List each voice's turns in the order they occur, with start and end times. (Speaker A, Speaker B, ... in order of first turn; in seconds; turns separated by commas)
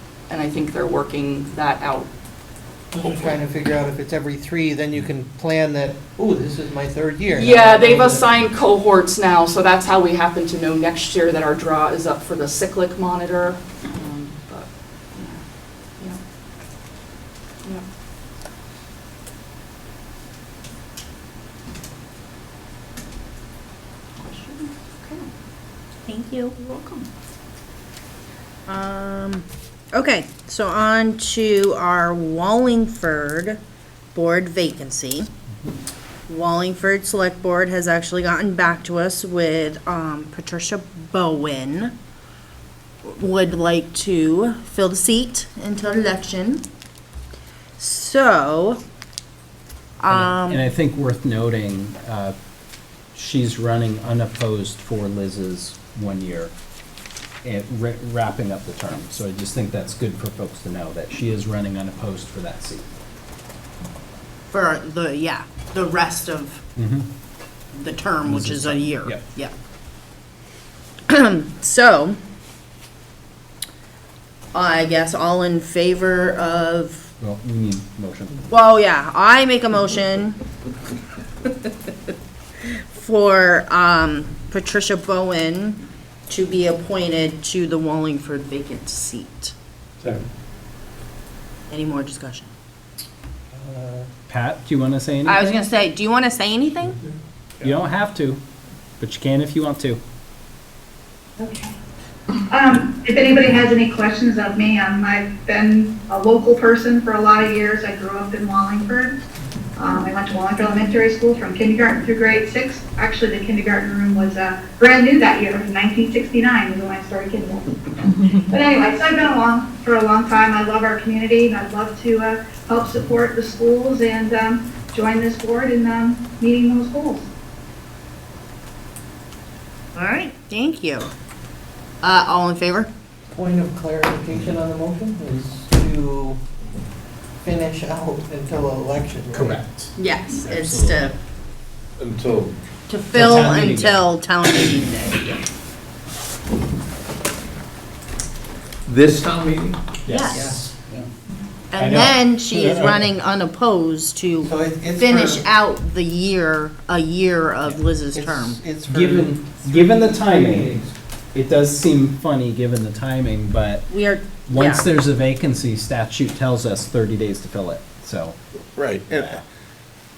Speaker A: 0.3-2.1, Speaker B: 2.9-8.3, Speaker A: 7.3-15.4, Speaker A: 24.2-25.3, Speaker C: 26.1-26.5, Speaker A: 26.5-27.1, Speaker C: 28.7-33.6, Speaker C: 34.1-35.3, Speaker C: 36.3-41.9, Speaker C: 43.0-46.6, Speaker C: 47.8-48.8, Speaker C: 50.0-50.6, Speaker D: 50.1-52.3, Speaker D: 53.1-56.5, Speaker D: 57.4-62.9, Speaker C: 64.5-66.6, Speaker D: 66.8-67.1, Speaker C: 67.7-69.5, Speaker D: 68.2-69.2, Speaker C: 71.1-72.2, Speaker C: 74.5-77.1, Speaker D: 77.2-78.5, Speaker C: 78.5-80.4, Speaker C: 82.7-89.5, Speaker C: 91.7-92.5, Speaker B: 93.5-94.1, Speaker D: 94.3-95.5, Speaker C: 95.2-97.0, Speaker D: 97.6-98.4, Speaker D: 99.0-100.0, Speaker E: 101.4-101.7, Speaker E: 102.5-109.2, Speaker E: 109.8-127.3, Speaker C: 129.9-131.1, Speaker C: 132.0-132.9, Speaker B: 133.3-136.4, Speaker B: 137.4-139.6, Speaker D: 139.3-141.1, Speaker C: 139.9-141.1, Speaker F: 142.0-142.6, Speaker C: 142.9-145.4, Speaker D: 143.1-144.0, Speaker F: 148.8-149.9, Speaker D: 150.1-151.1, Speaker C: 150.1-150.6, Speaker B: 150.3-150.6, Speaker C: 151.7-158.6, Speaker D: 151.8-153.0, Speaker B: 154.4-155.4, Speaker B: 158.1-160.9, Speaker D: 158.9-160.8, Speaker D: 161.3-163.9, Speaker C: 163.9-164.9, Speaker D: 164.5-168.3, Speaker F: 168.8-169.4